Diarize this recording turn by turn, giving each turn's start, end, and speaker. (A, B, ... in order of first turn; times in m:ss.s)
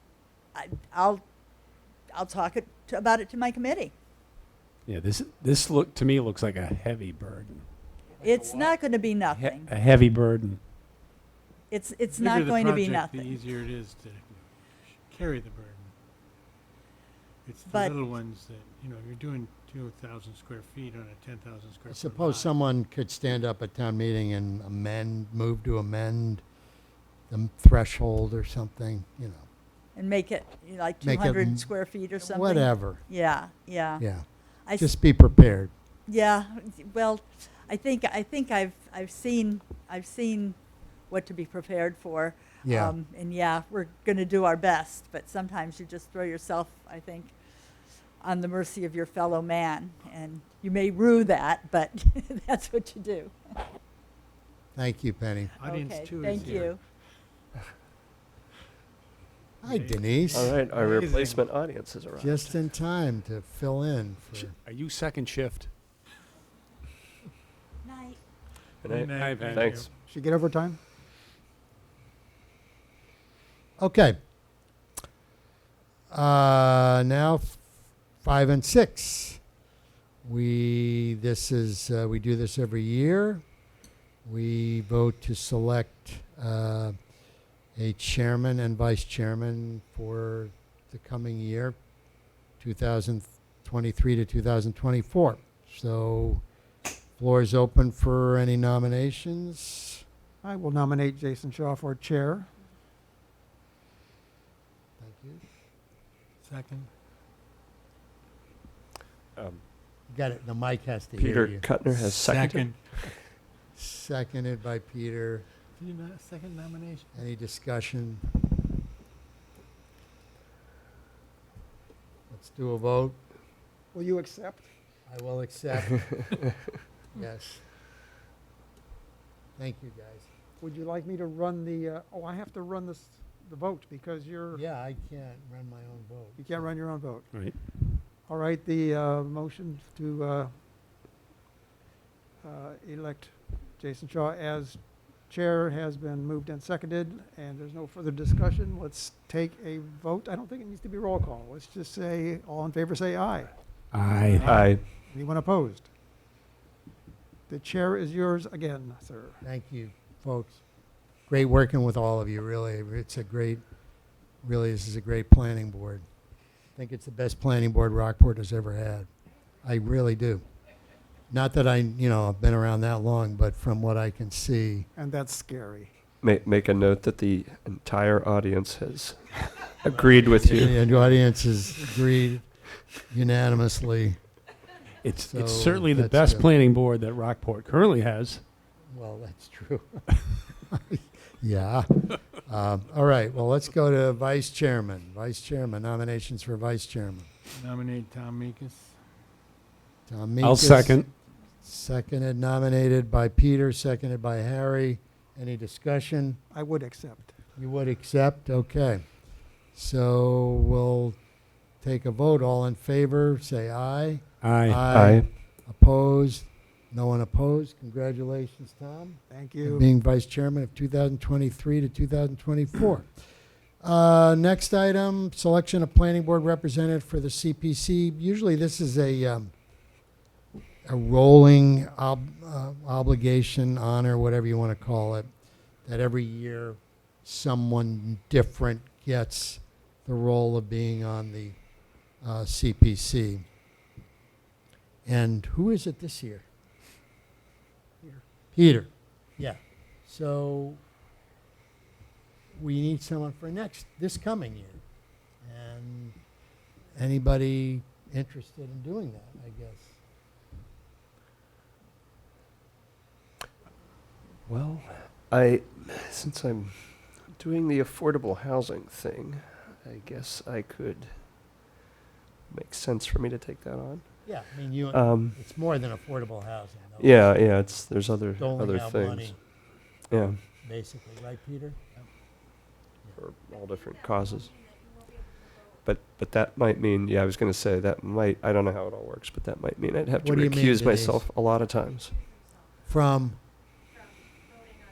0:00.6-0:01.2 A
0:02.1-0:03.9 A
0:04.9-0:07.6 B
0:08.2-0:09.7 A
0:09.3-0:10.6 B
0:11.7-0:13.4 A
0:12.1-0:15.9 C
0:17.4-0:22.5 C
0:17.7-0:18.0 A
0:21.9-0:26.4 D
0:27.3-0:29.5 D
0:30.0-0:34.0 A
0:31.0-0:33.0 D
0:34.0-0:34.2 D
0:34.8-0:35.7 D
0:36.1-0:40.6 A
0:41.1-0:47.3 A
0:42.6-0:43.0 D
0:48.2-0:53.6 A
0:54.8-0:55.6 D
0:55.6-0:56.8 C
0:55.6-0:56.8 A
0:59.6-1:00.6 D
0:59.6-1:01.4 C
1:00.3-1:02.5 E
1:02.2-1:04.6 D
1:04.4-1:05.7 B
1:07.8-1:08.2 A
1:08.8-1:09.9 E
1:08.9-1:09.9 C
1:09.2-1:09.9 B
1:10.1-1:10.8 F
1:13.8-1:14.2 D
1:16.1-1:17.6 D
1:18.2-1:19.4 D
1:20.2-1:23.4 D
1:24.2-1:27.0 D
1:27.8-1:31.8 D
1:32.6-1:36.4 D
1:37.2-1:40.0 D
1:40.4-1:42.5 F
1:45.0-1:45.4 D
1:46.4-1:46.9 C
1:49.4-1:49.6 E
1:50.1-1:51.7 D
1:51.2-1:53.2 E
1:52.0-1:52.8 C
1:53.8-1:55.5 D
1:55.8-1:57.1 C
1:57.2-1:58.2 D
2:02.3-2:03.2 D
2:03.9-2:04.7 F
2:05.1-2:06.5 D
2:07.1-2:07.6 D
2:09.6-2:10.3 D
2:10.6-2:14.6 F
2:14.5-2:16.7 D
2:16.4-2:17.3 F
2:17.3-2:17.6 B
2:18.3-2:20.5 F
2:22.4-2:33.6 F
2:33.9-2:34.5 B
2:34.2-2:34.7 C
2:34.4-2:35.9 F
2:34.4-2:34.8 E
2:37.5-2:39.4 F
2:39.4-2:40.6 D
2:41.3-2:43.6 D
2:44.4-2:46.0 D
2:46.8-2:49.1 D
2:49.6-2:50.4 D
2:51.3-2:54.9 D
2:55.0-2:55.9 F
2:56.2-3:00.8 E
3:00.0-3:02.5 D
3:03.1-3:04.2 D
3:05.0-3:08.4 B
3:05.2-3:06.5 D
3:08.9-3:17.3 D
3:17.5-3:19.0 C
3:20.1-3:21.1 D
3:20.4-3:21.1 B
3:21.6-3:26.4 D
3:26.5-3:27.4 F
3:27.6-3:29.0 D
3:29.7-3:31.2 D
3:31.8-3:43.1 D
3:34.4-3:34.8 B
3:34.9-3:35.3 E
3:39.3-3:39.9 F
3:43.8-3:49.5 D
3:50.9-3:55.3 D
3:55.8-4:01.6 D
4:02.2-4:03.4 D
4:05.1-4:06.5 D
4:08.5-4:10.8 D
4:12.5-4:14.8 D
4:15.4-4:16.2 D
4:16.9-4:20.0 D
4:24.5-4:31.3 E
4:32.5-4:34.4 E
4:34.3-4:37.7 D
4:34.9-4:35.4 E
4:37.0-4:39.4 E
4:38.4-4:39.4 D
4:40.1-4:40.4 E
4:40.6-4:41.8 D
4:43.2-4:44.6 E
4:45.8-4:52.1 E
4:50.2-4:51.2 D
4:52.9-4:53.4 D